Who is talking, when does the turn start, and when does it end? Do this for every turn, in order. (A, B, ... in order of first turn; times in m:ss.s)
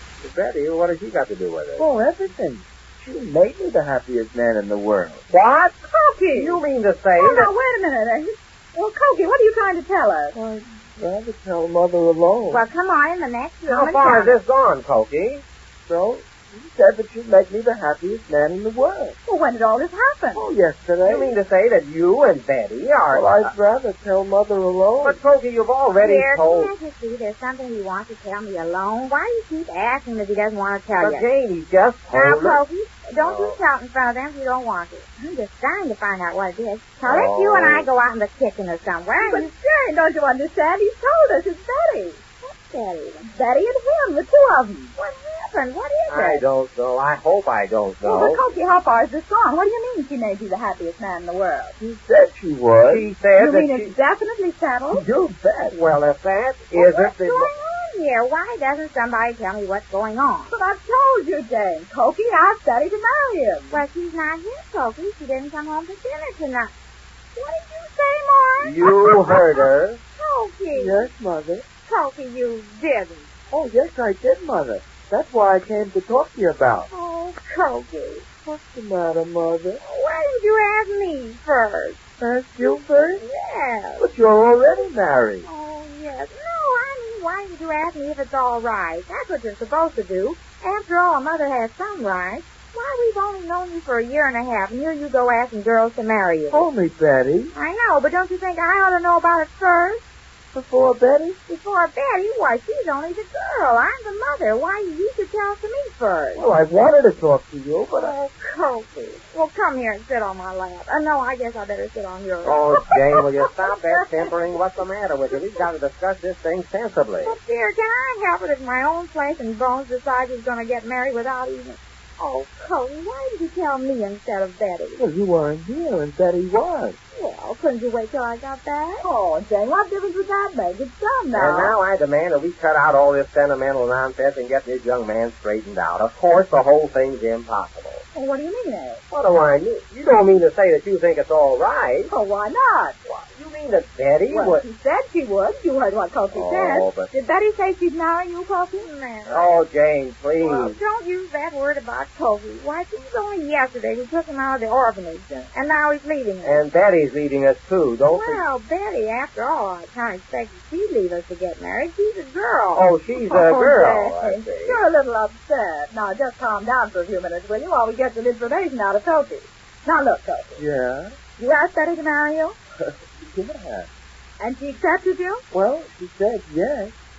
0:00.2-0:01.8 A
0:01.8-0:05.2 B
0:05.3-0:05.8 A
0:05.9-0:06.6 C
0:06.3-0:07.5 A
0:07.2-0:10.4 C
0:10.3-0:12.6 B
0:12.5-0:14.4 D
0:13.7-0:15.4 A
0:15.8-0:19.2 B
0:19.2-0:20.4 C
0:20.3-0:21.3 B
0:21.0-0:23.5 A
0:23.1-0:25.2 B
0:25.0-0:26.7 A
0:26.0-0:31.3 D
0:31.0-0:32.6 A
0:32.1-0:39.5 D
0:33.2-0:33.6 A
0:37.0-0:37.9 A
0:39.2-0:42.2 C
0:42.4-0:43.3 D
0:43.3-0:44.9 C
0:45.0-0:46.4 D
0:46.1-0:48.4 A
0:48.0-0:51.8 C
0:51.8-0:53.1 B
0:52.9-0:53.9 A
0:53.3-0:55.0 C
0:54.9-0:55.8 B
0:55.7-0:57.5 A
0:56.8-1:00.5 D
1:00.5-1:03.8 C
1:03.7-1:06.7 D
1:07.3-1:09.6 D
1:08.6-1:10.0 A
1:10.2-1:11.1 D
1:10.7-1:11.6 B
1:11.8-1:13.3 D
1:13.5-1:16.9 B
1:16.9-1:18.2 D
1:18.4-1:19.8 B
1:19.8-1:22.0 D
1:22.2-1:23.2 B
1:23.0-1:24.1 D
1:24.0-1:25.5 B
1:25.4-1:36.7 D
1:36.5-1:37.5 B
1:37.5-1:40.0 D
1:40.5-1:41.4 B
1:41.5-1:46.5 D
1:46.3-1:48.2 B
1:47.9-1:52.7 D
1:52.4-1:57.4 A
1:57.2-2:05.0 D
2:05.0-2:07.0 B
2:07.1-2:09.0 D
2:09.0-2:11.8 C
2:11.3-2:18.0 A
2:18.1-2:19.0 C
2:19.1-2:22.1 A
2:22.1-2:23.0 C
2:23.0-2:24.6 A
2:24.3-2:28.9 C
2:26.3-2:27.0 A
2:28.8-2:29.6 D
2:29.3-2:30.8 A
2:30.4-2:36.7 D
2:36.4-2:38.4 A
2:38.0-2:42.9 D
2:42.7-2:44.8 A
2:43.1-2:50.6 C
2:50.6-2:51.1 B
2:51.4-2:52.6 C
2:52.8-2:53.9 B
2:54.4-2:55.4 C
2:55.5-2:56.9 B